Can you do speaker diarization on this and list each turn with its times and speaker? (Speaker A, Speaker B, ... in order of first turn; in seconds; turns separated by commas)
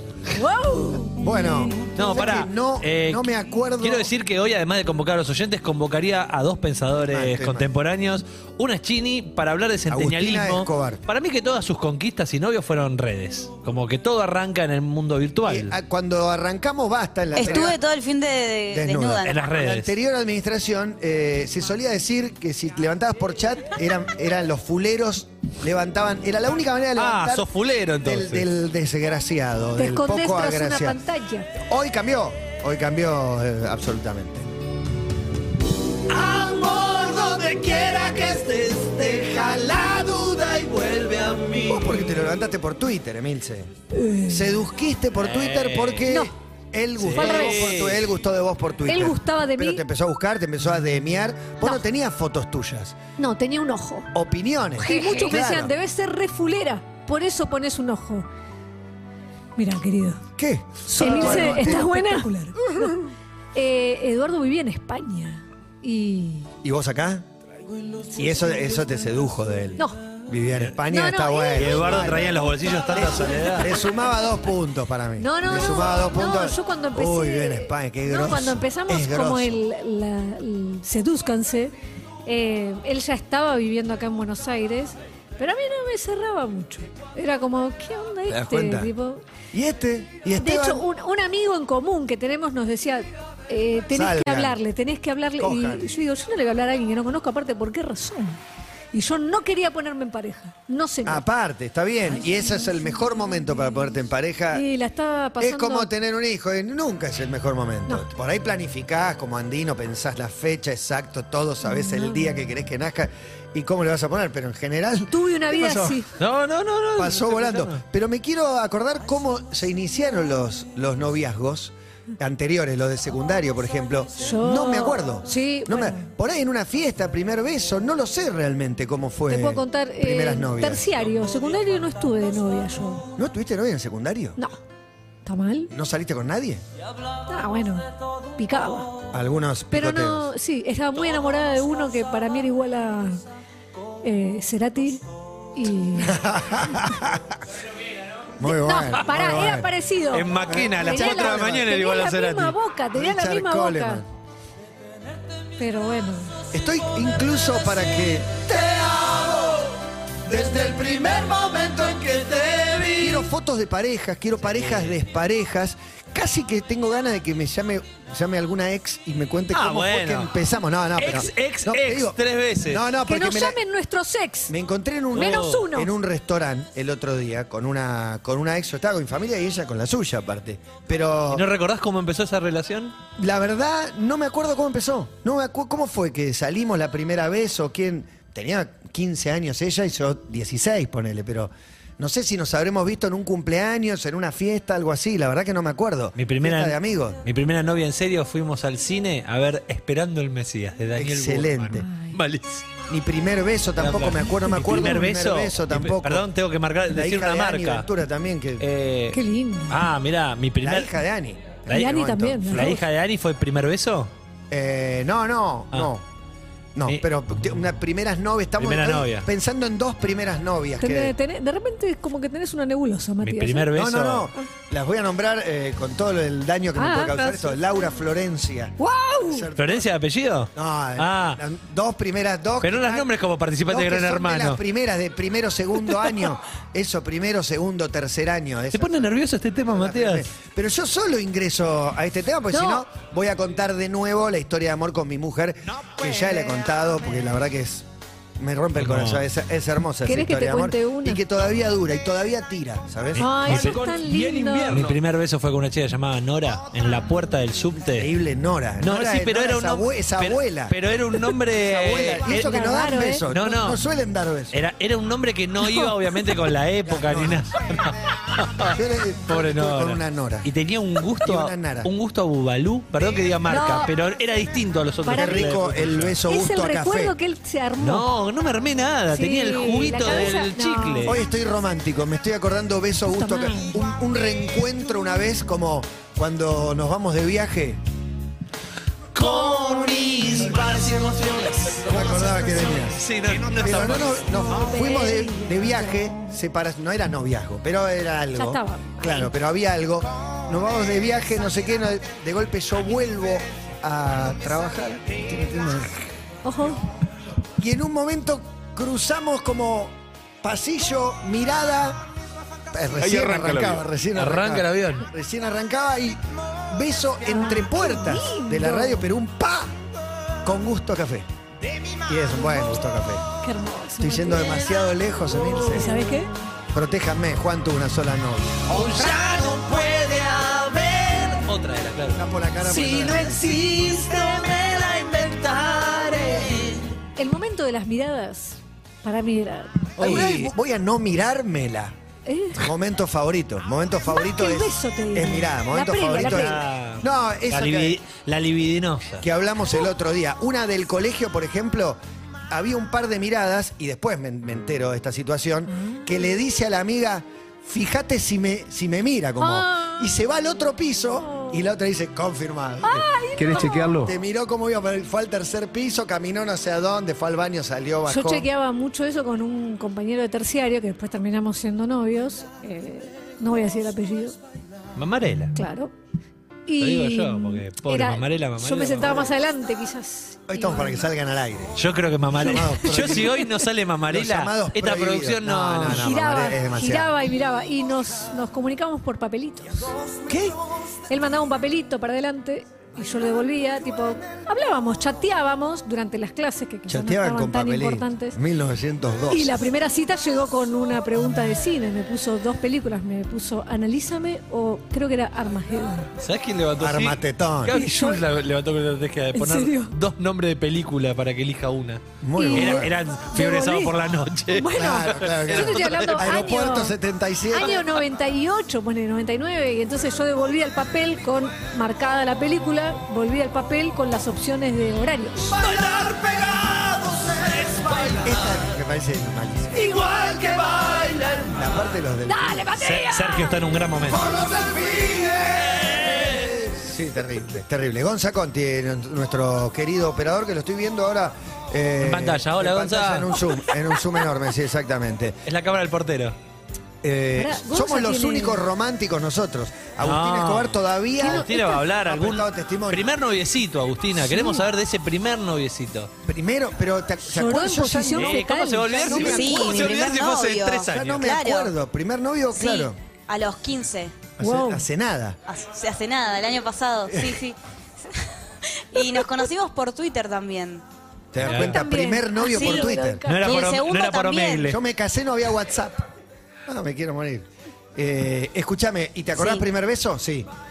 Speaker A: 0.3-1.2, Speaker B: 1.2-4.1, Speaker C: 2.0-3.3, Speaker C: 3.8-15.8, Speaker B: 7.0-7.7, Speaker B: 9.9-11.0, Speaker B: 15.5-17.8, Speaker D: 17.4-19.4, Speaker B: 18.7-27.5, Speaker C: 19.3-19.9, Speaker C: 27.0-28.5, Speaker B: 28.0-31.0, Speaker A: 29.8-31.5, Speaker B: 31.6-34.5, Speaker B: 41.7-43.7, Speaker A: 43.9-44.5, Speaker B: 44.3-53.0, Speaker C: 45.2-46.1, Speaker C: 47.0-48.1, Speaker A: 47.2-47.7, Speaker A: 48.9-49.8, Speaker A: 53.2-54.1, Speaker B: 54.1-55.7, Speaker A: 54.8-58.3, Speaker A: 59.6-60.2, Speaker B: 60.4-62.2, Speaker A: 60.9-66.5, Speaker C: 61.3-61.7, Speaker B: 66.6-67.2, Speaker B: 68.1-79.6, Speaker A: 70.9-72.1, Speaker C: 71.5-73.7, Speaker A: 75.2-81.7, Speaker A: 82.3-89.2, Speaker B: 88.3-88.9, Speaker B: 89.5-90.8, Speaker A: 90.4-101.3, Speaker B: 93.9-94.6, Speaker B: 95.4-95.9, Speaker B: 101.0-104.7, Speaker A: 102.1-103.3, Speaker A: 104.5-105.9, Speaker B: 105.4-116.1, Speaker A: 111.7-112.4, Speaker A: 115.1-116.1, Speaker C: 116.2-117.8, Speaker B: 117.0-130.8, Speaker A: 124.2-126.0, Speaker A: 129.3-133.1, Speaker B: 133.2-134.4, Speaker A: 135.2-135.7, Speaker B: 135.7-136.6, Speaker A: 137.3-137.9, Speaker A: 138.4-138.9, Speaker B: 139.1-140.3, Speaker A: 139.7-143.2, Speaker A: 144.0-145.0, Speaker A: 145.6-146.2, Speaker B: 146.0-147.4, Speaker B: 148.4-149.7, Speaker A: 148.4-154.0, Speaker C: 150.1-152.6, Speaker B: 150.5-151.7, Speaker B: 152.9-154.1, Speaker A: 155.6-156.3, Speaker B: 156.5-159.7, Speaker B: 160.3-162.0, Speaker B: 162.9-173.6, Speaker C: 164.5-165.0, Speaker C: 169.5-170.4, Speaker C: 171.0-172.8, Speaker A: 173.1-174.5, Speaker B: 174.5-181.4, Speaker A: 175.1-175.9, Speaker C: 175.2-175.7, Speaker C: 181.3-182.9, Speaker B: 183.2-197.2, Speaker C: 196.2-202.7, Speaker B: 201.0-201.8, Speaker A: 201.8-202.2, Speaker B: 202.9-206.2, Speaker C: 203.8-207.9, Speaker A: 204.7-205.0, Speaker B: 206.9-208.7, Speaker C: 208.6-209.2, Speaker A: 209.1-209.8, Speaker C: 209.7-210.9, Speaker B: 210.6-212.8, Speaker A: 211.7-212.8, Speaker C: 212.5-214.1, Speaker B: 214.5-216.0, Speaker B: 216.8-221.1, Speaker C: 218.6-219.3, Speaker A: 220.8-223.7, Speaker C: 223.2-224.3, Speaker B: 223.7-228.8, Speaker A: 226.8-227.6, Speaker A: 228.8-229.5, Speaker B: 229.3-229.9, Speaker C: 229.6-231.4, Speaker B: 230.6-233.1, Speaker C: 232.6-234.6, Speaker B: 233.7-239.1, Speaker C: 238.7-240.3, Speaker B: 239.7-247.9, Speaker A: 242.5-242.8, Speaker C: 246.0-246.3, Speaker B: 248.4-253.8, Speaker C: 248.8-249.2, Speaker A: 250.1-251.2, Speaker C: 253.1-258.1, Speaker A: 253.2-254.9, Speaker B: 258.0-260.8, Speaker C: 258.8-262.5, Speaker B: 261.5-264.6, Speaker A: 262.3-263.2, Speaker C: 263.3-263.8, Speaker C: 264.5-276.2, Speaker A: 265.7-265.9, Speaker B: 266.9-267.5, Speaker B: 268.7-270.5, Speaker B: 271.2-271.9, Speaker A: 273.5-273.9, Speaker A: 275.0-275.6, Speaker B: 275.1-277.1, Speaker A: 276.3-278.1, Speaker C: 277.8-281.2, Speaker A: 279.1-281.1, Speaker B: 281.1-287.8, Speaker A: 283.0-283.9, Speaker C: 289.1-294.3, Speaker B: 289.2-306.0, Speaker A: 294.3-296.1, Speaker A: 298.4-299.3, Speaker A: 306.4-306.8, Speaker B: 307.6-312.1, Speaker B: 312.7-319.8, Speaker C: 314.1-315.1, Speaker A: 317.3-319.1, Speaker B: 320.4-321.3, Speaker B: 322.1-323.3, Speaker A: 323.4-324.9, Speaker B: 324.0-325.9, Speaker A: 325.5-326.3, Speaker B: 326.7-328.9, Speaker C: 328.7-336.7, Speaker B: 332.1-333.7, Speaker A: 337.2-340.4, Speaker C: 340.0-340.5, Speaker B: 340.0-341.9, Speaker A: 342.3-342.7, Speaker B: 342.6-348.0, Speaker A: 344.1-346.6, Speaker C: 346.2-349.2, Speaker B: 349.2-368.5, Speaker A: 355.8-356.1, Speaker A: 359.4-360.2, Speaker A: 361.2-361.6, Speaker A: 362.8-364.0, Speaker A: 368.1-374.4, Speaker C: 375.0-375.6, Speaker A: 375.6-375.9, Speaker A: 376.7-381.1, Speaker C: 376.8-379.3, Speaker B: 380.5-381.8, Speaker C: 381.8-386.1, Speaker B: 382.3-383.4, Speaker A: 382.4-383.6, Speaker B: 384.1-387.1, Speaker A: 385.9-389.9, Speaker B: 390.3-390.6, Speaker A: 391.1-398.4, Speaker B: 396.9-399.6, Speaker A: 399.3-406.1, Speaker C: 406.2-416.6, Speaker B: 406.8-407.8, Speaker A: 407.7-408.2, Speaker A: 409.4-409.9, Speaker B: 412.2-412.9, Speaker A: 412.4-413.9, Speaker A: 414.5-416.9, Speaker B: 414.7-417.8, Speaker A: 417.5-425.7, Speaker C: 425.6-426.9, Speaker C: 427.7-428.2, Speaker B: 428.2-429.9, Speaker A: 429.9-430.5, Speaker B: 431.4-432.7, Speaker A: 432.3-433.5, Speaker C: 432.8-434.3, Speaker B: 434.1-445.4, Speaker C: 435.8-436.3, Speaker C: 442.0-443.3, Speaker C: 445.5-446.4, Speaker B: 447.0-453.1, Speaker A: 447.4-448.6, Speaker C: 450.0-456.1, Speaker A: 451.2-451.8, Speaker A: 454.3-454.6, Speaker B: 456.2-458.4, Speaker A: 457.3-459.5, Speaker C: 458.1-461.3, Speaker B: 459.1-460.0, Speaker D: 459.2-461.7, Speaker B: 460.9-463.0, Speaker D: 462.6-464.2, Speaker B: 464.4-465.4, Speaker A: 464.4-464.9, Speaker D: 465.5-467.6, Speaker B: 467.1-467.4, Speaker D: 468.9-470.8, Speaker B: 471.3-473.2, Speaker C: 471.4-471.8, Speaker A: 471.6-473.7, Speaker D: 472.5-472.9, Speaker C: 473.3-474.8, Speaker D: 473.4-474.7, Speaker B: 474.7-476.1, Speaker B: 476.7-480.5, Speaker D: 479.4-479.6